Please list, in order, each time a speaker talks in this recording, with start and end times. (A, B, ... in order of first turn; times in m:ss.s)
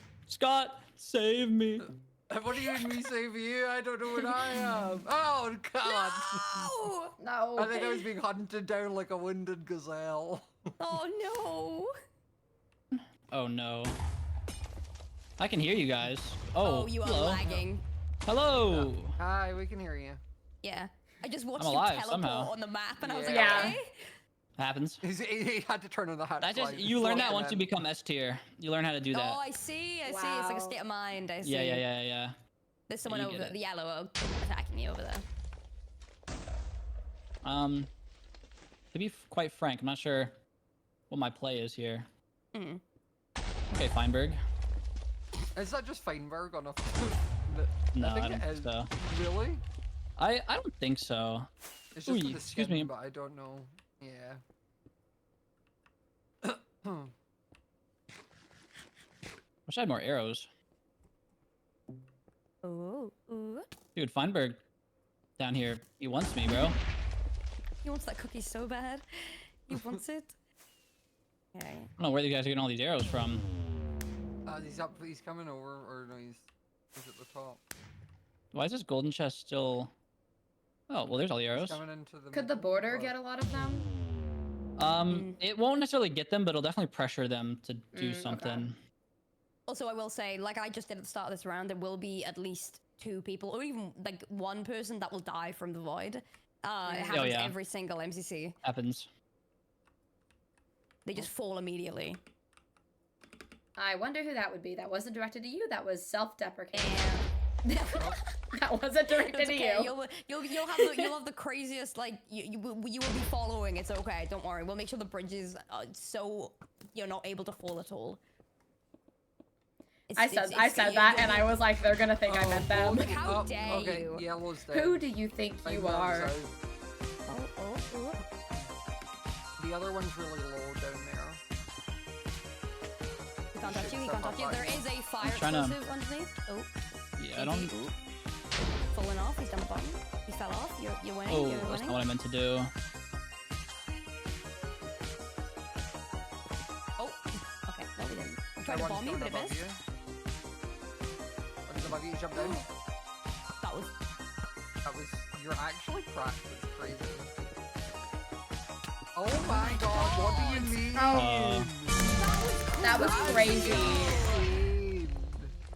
0:00.3-0:01.9 A
0:02.3-0:06.8 B
0:05.8-0:07.2 C
0:07.2-0:08.0 D
0:07.6-0:11.0 B
0:10.8-0:11.9 C
0:12.9-0:14.0 A
0:15.4-0:17.5 A
0:16.6-0:17.8 C
0:18.2-0:19.2 A
0:18.7-0:20.2 B
0:20.6-0:24.1 C
0:21.6-0:22.5 A
0:23.0-0:23.7 B
0:23.3-0:23.8 D
0:24.6-0:25.0 A
0:25.0-0:27.7 B
0:26.4-0:29.4 A
0:27.1-0:27.4 C
0:29.1-0:31.9 C
0:30.0-0:30.8 D
0:31.4-0:32.4 A
0:32.9-0:35.2 C
0:33.0-0:33.6 A
0:37.4-0:37.9 A
0:38.9-0:40.4 A
0:41.1-0:42.1 A
0:42.5-0:42.8 C
0:43.7-0:44.4 A
0:45.5-0:49.6 B
0:47.9-0:48.9 A
0:50.2-0:51.5 A
0:51.9-0:54.4 B
0:52.0-0:52.9 A
0:56.4-0:57.1 B
0:59.7-1:00.5 A
1:02.6-1:03.6 C
1:04.0-1:04.6 A
1:05.4-1:06.8 A
1:07.8-1:10.4 C
1:09.7-1:10.0 B
1:11.5-1:11.9 C
1:12.0-1:13.4 A
1:14.4-1:17.6 B
1:18.5-1:19.9 A
1:20.9-1:21.8 A
1:21.5-1:23.2 B
1:22.3-1:23.9 D
1:24.8-1:28.8 A
1:25.1-1:25.4 C
1:27.9-1:28.7 D
1:29.7-1:38.6 C
1:36.8-1:37.2 D
1:37.1-1:37.5 A
1:38.6-1:39.1 A
1:41.0-1:42.2 C
1:43.8-1:47.1 D
1:46.7-1:47.3 C
1:47.6-1:49.9 D
1:49.2-1:58.2 C
1:50.7-1:51.1 D
2:00.1-2:01.5 C
2:00.1-2:03.1 D
2:02.2-2:05.0 B
2:03.0-2:04.2 C
2:04.7-2:06.3 D
2:05.6-2:06.5 B
2:07.2-2:08.2 C
2:09.6-2:11.4 B
2:13.5-2:16.7 C
2:13.6-2:14.9 B
2:15.2-2:15.8 A
2:17.2-2:17.7 A
2:17.3-2:17.9 C
2:18.9-2:22.0 C
2:21.3-2:22.7 A
2:27.0-2:29.6 C
2:28.6-2:29.8 B
2:31.7-2:32.6 B
2:32.3-2:32.6 C
2:33.6-2:33.9 C
2:34.8-2:37.3 B
2:39.1-2:42.2 B
2:39.4-2:41.0 C
2:40.9-2:41.3 D
2:41.1-2:41.7 A
2:42.1-2:44.5 C
2:42.8-2:44.2 D
2:42.9-2:45.5 B